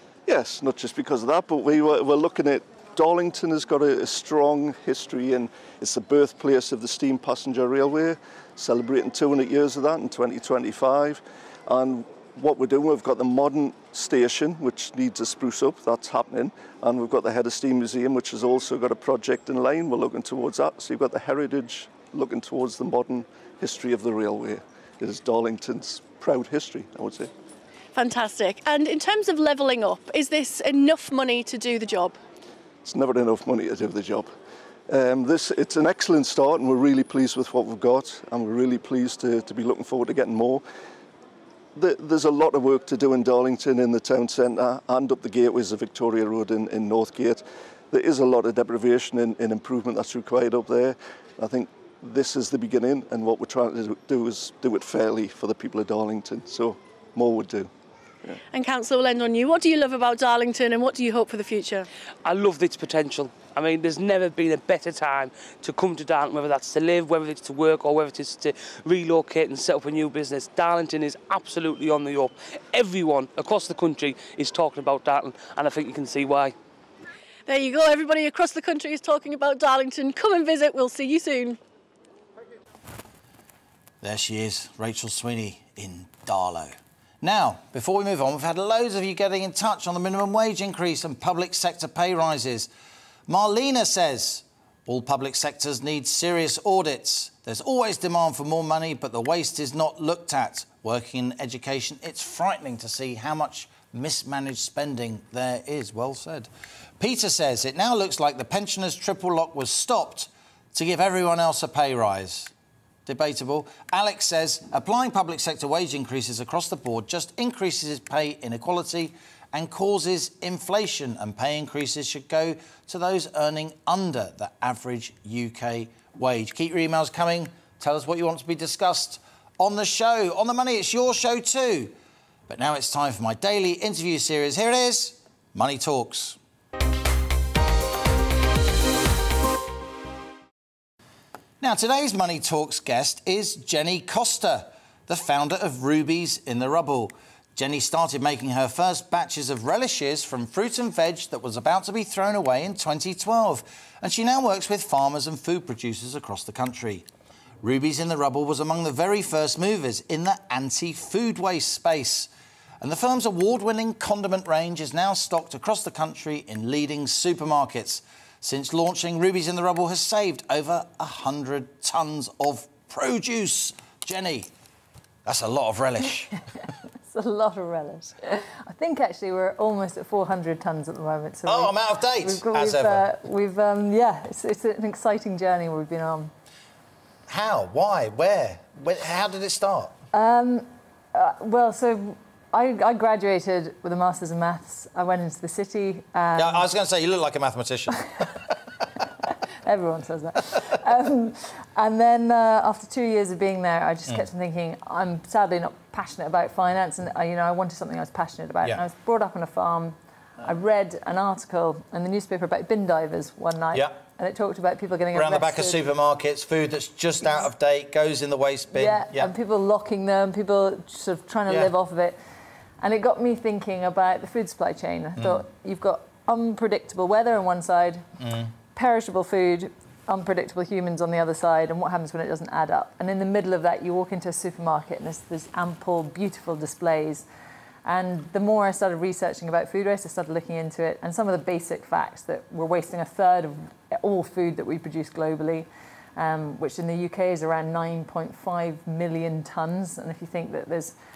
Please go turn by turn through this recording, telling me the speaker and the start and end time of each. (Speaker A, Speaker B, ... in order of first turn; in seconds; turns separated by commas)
Speaker A: 0.3-27.3, Speaker B: 27.9-32.2, Speaker A: 32.9-34.3, Speaker A: 34.9-40.6, Speaker A: 41.8-57.7, Speaker B: 58.5-61.9, Speaker C: 62.2-76.5, Speaker B: 77.5-81.6, Speaker D: 84.0-92.7, Speaker D: 93.3-112.5, Speaker D: 113.1-131.9, Speaker D: 132.5-136.4, Speaker D: 141.6-157.1, Speaker D: 157.6-162.3, Speaker D: 162.8-174.5, Speaker D: 175.2-176.4, Speaker E: 177.1-186.3, Speaker D: 181.5-183.1, Speaker D: 187.3-189.9, Speaker E: 190.1-196.7, Speaker D: 196.4-198.5, Speaker E: 199.6-215.8, Speaker D: 213.7-214.0, Speaker D: 215.1-219.3, Speaker E: 218.7-222.2, Speaker E: 222.8-228.1, Speaker D: 225.2-225.4, Speaker D: 228.2-228.5, Speaker E: 228.8-237.3, Speaker E: 237.8-250.9